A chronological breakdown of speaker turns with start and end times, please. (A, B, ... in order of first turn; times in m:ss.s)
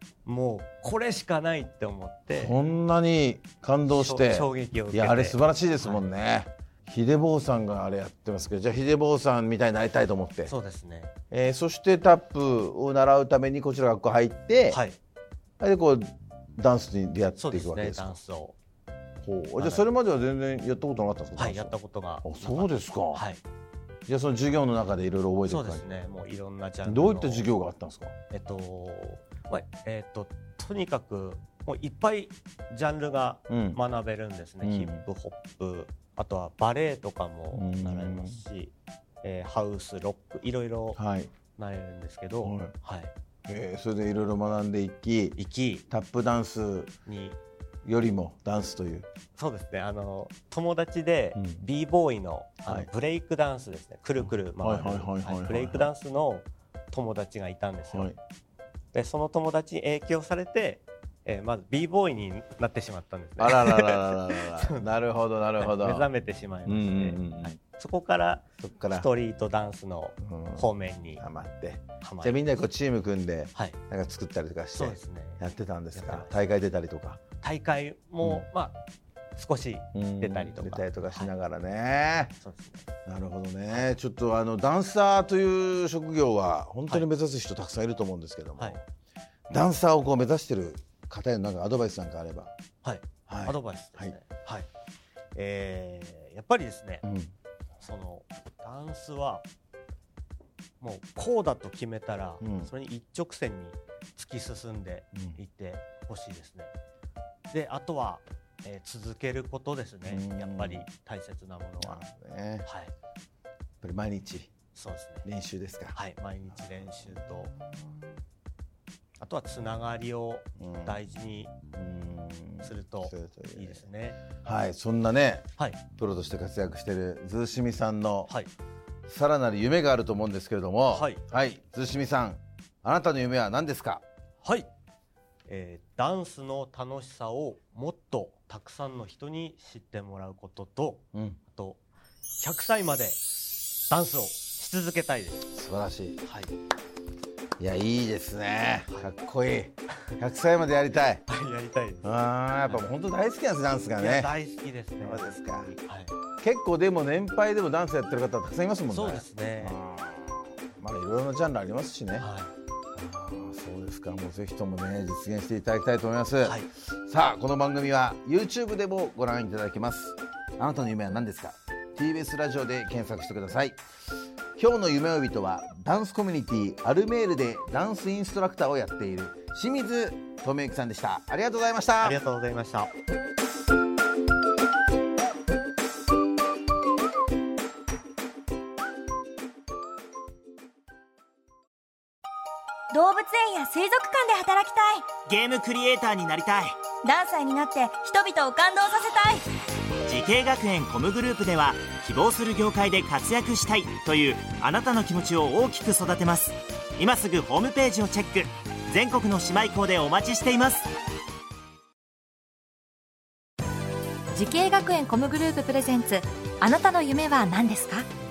0:00.2-0:02.5 A
0:02.3-0:10.5 B
0:03.9-0:06.1 A
0:10.4-0:11.1 A
0:11.3-0:14.8 B
0:14.7-0:15.0 A
0:15.6-0:18.2 B
0:17.4-0:18.6 A
0:19.2-0:23.3 B
0:19.6-0:19.8 A
0:21.4-0:23.4 A
0:24.1-0:25.9 B
0:25.4-0:27.5 A
0:26.8-0:28.1 B
0:28.3-0:41.0 A
0:33.5-0:33.8 B
0:34.6-0:35.0 B
0:37.5-0:38.4 B
0:40.9-0:41.3 B
0:41.5-0:43.1 A
0:42.4-0:42.7 B
0:43.5-0:45.4 B
0:45.4-0:45.8 A
0:45.9-0:46.9 B
0:47.0-0:47.4 A
0:47.8-0:49.1 B
0:49.4-0:58.1 A
0:51.4-0:51.6 B
0:54.2-0:55.9 B
0:57.9-0:58.2 B
0:58.9-1:04.9 A
1:03.4-1:06.1 B
1:05.6-1:11.2 A
1:06.6-1:07.6 B
1:08.6-1:09.1 B
1:10.2-1:17.2 B
1:12.0-1:12.6 A
1:14.7-1:15.4 A
1:15.9-1:16.3 A
1:17.4-1:18.8 A
1:18.2-1:18.5 B
1:19.3-1:21.3 A
1:19.9-1:22.3 B
1:22.4-1:22.8 A
1:23.0-1:28.8 B
1:23.7-1:24.0 A
1:29.5-1:32.5 B
1:32.8-1:34.7 A
1:33.3-1:34.2 B
1:35.3-1:37.0 A
1:37.0-1:37.3 B
1:37.8-1:39.4 A
1:40.8-1:46.7 A
1:42.4-1:42.7 B
1:45.1-1:45.4 B
1:47.5-1:52.0 A
1:50.0-1:50.8 B
1:51.8-1:52.7 B
1:52.6-1:52.9 A
1:53.8-1:54.5 B
1:54.7-1:55.3 A
1:55.2-1:56.0 B
1:55.9-1:57.5 A
1:56.6-1:58.2 B
1:59.2-2:01.5 A
2:00.6-2:01.0 B
2:01.7-2:03.8 B
2:02.6-2:04.2 A
2:04.4-2:08.3 B
2:09.0-2:14.0 B
2:10.9-2:11.2 A
2:14.4-2:14.7 A
2:15.5-2:21.8 A
2:21.1-2:21.4 B
2:22.4-2:23.2 A
2:23.9-2:25.5 A
2:25.5-2:26.2 B
2:26.2-2:26.5 A
2:27.6-2:31.2 B
2:31.3-2:32.8 A
2:32.0-2:34.4 B
2:34.0-2:36.1 A
2:35.0-2:35.7 B
2:36.4-2:42.3 B
2:38.9-2:39.8 A
2:42.2-2:42.5 A
2:42.9-2:53.8 B
2:54.6-3:02.2 B
3:02.0-3:02.9 A
3:12.9-3:15.1 C
3:15.2-3:16.8 D
3:17.0-3:19.4 C
3:20.0-3:30.9 D
3:34.3-3:38.0 E